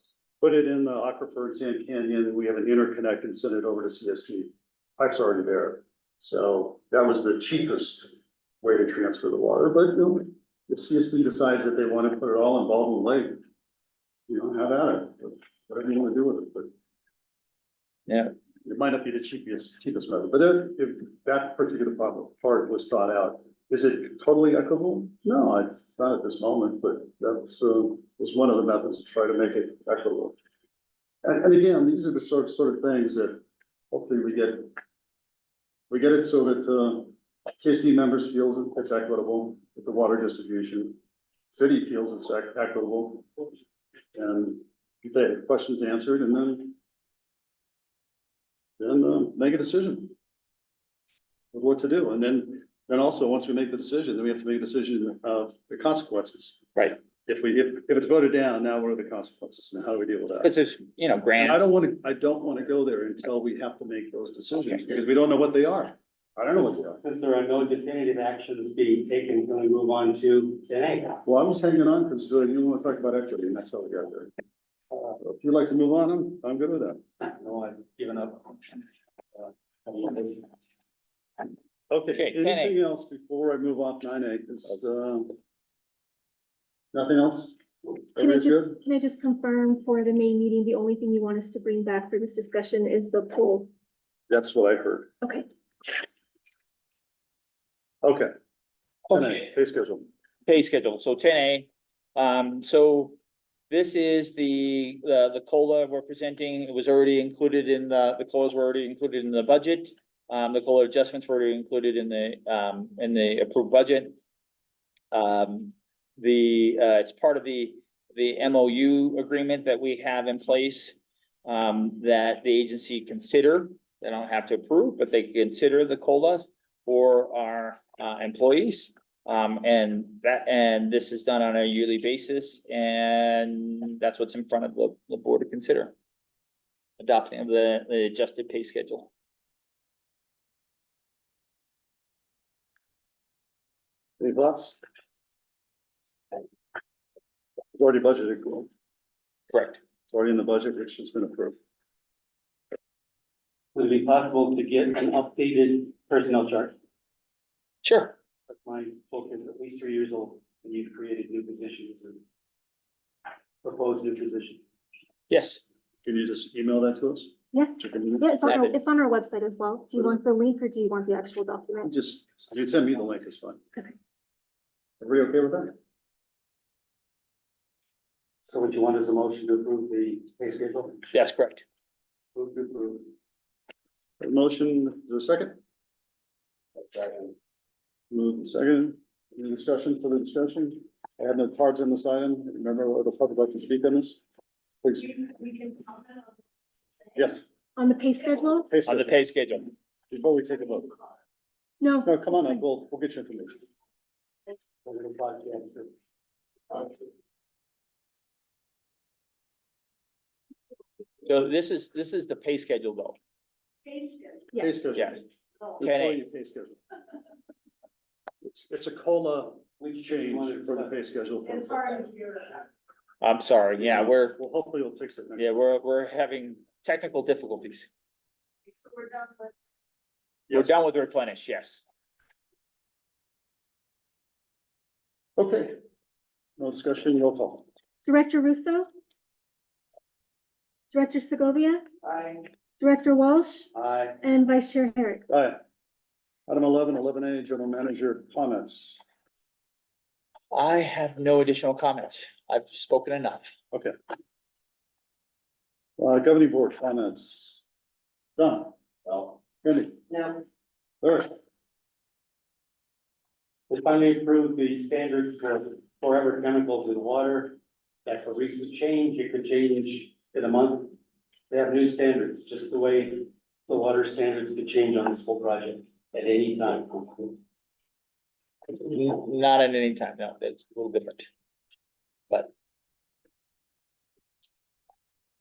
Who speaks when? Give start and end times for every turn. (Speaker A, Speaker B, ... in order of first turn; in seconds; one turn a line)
Speaker A: 0.4-13.4
Speaker A: 14.3-16.7
Speaker B: 18.1-18.3
Speaker A: 18.6-30.4
Speaker A: 31.2-34.7
Speaker A: 35.9-41.0
Speaker A: 41.5-43.5
Speaker A: 44.1-46.8
Speaker A: 48.8-50.1
Speaker A: 51.5-60.5
Speaker B: 60.4-61.7
Speaker A: 61.4-67.0
Speaker C: 66.5-71.2
Speaker A: 71.2-74.3
Speaker A: 75.2-77.0
Speaker C: 77.2-78.8
Speaker C: 79.3-80.5
Speaker A: 81.9-85.3
Speaker B: 82.1-82.8
Speaker A: 86.9-87.6
Speaker A: 88.1-88.8
Speaker D: 88.2-93.7
Speaker A: 94.3-95.1
Speaker A: 98.0-98.3
Speaker A: 99.1-100.0
Speaker B: 100.5-103.2
Speaker B: 103.7-114.2
Speaker B: 115.1-135.9
Speaker B: 137.0-139.1
Speaker A: 144.2-144.8
Speaker A: 147.8-148.7
Speaker B: 149.5-149.8
Speaker A: 150.1-151.6
Speaker C: 153.8-156.8
Speaker B: 157.8-158.2
Speaker C: 158.5-162.2
Speaker C: 163.6-164.7
Speaker B: 165.3-165.6
Speaker A: 166.1-168.2
Speaker D: 167.5-171.9
Speaker B: 168.4-168.8
Speaker A: 171.8-173.6
Speaker A: 175.0-175.8
Speaker C: 178.4-181.1
Speaker B: 181.1-181.6
Speaker C: 182.3-183.1
Speaker A: 184.2-185.6
Speaker C: 186.9-187.3
Speaker A: 188.1-194.2
Speaker A: 194.8-195.5
Speaker A: 197.2-197.4
Speaker D: 197.8-198.7
Speaker A: 198.7-199.2
Speaker B: 198.9-199.7
Speaker A: 200.1-200.9
Speaker D: 201.8-202.6
Speaker A: 202.1-203.6
Speaker C: 204.8-205.9
Speaker B: 211.2-213.2
Speaker D: 213.9-214.9
Speaker A: 214.5-215.2
Speaker A: 215.8-216.8
Speaker B: 215.8-216.2
Speaker A: 218.4-222.2
Speaker C: 219.8-220.9
Speaker B: 223.2-224.4
Speaker A: 223.8-225.5
Speaker B: 225.4-227.9
Speaker D: 229.0-229.3
Speaker B: 230.5-231.8
Speaker A: 235.4-235.8
Speaker A: 236.6-237.7
Speaker D: 238.1-238.9
Speaker D: 240.9-241.8
Speaker D: 242.8-243.7
Speaker C: 243.7-244.2
Speaker D: 244.2-245.2
Speaker A: 245.3-245.6
Speaker A: 246.5-249.0
Speaker B: 250.5-253.5
Speaker A: 256.0-257.6
Speaker A: 258.4-260.4
Speaker A: 261.0-261.4
Speaker C: 263.7-271.0
Speaker C: 271.5-277.4
Speaker B: 278.7-281.3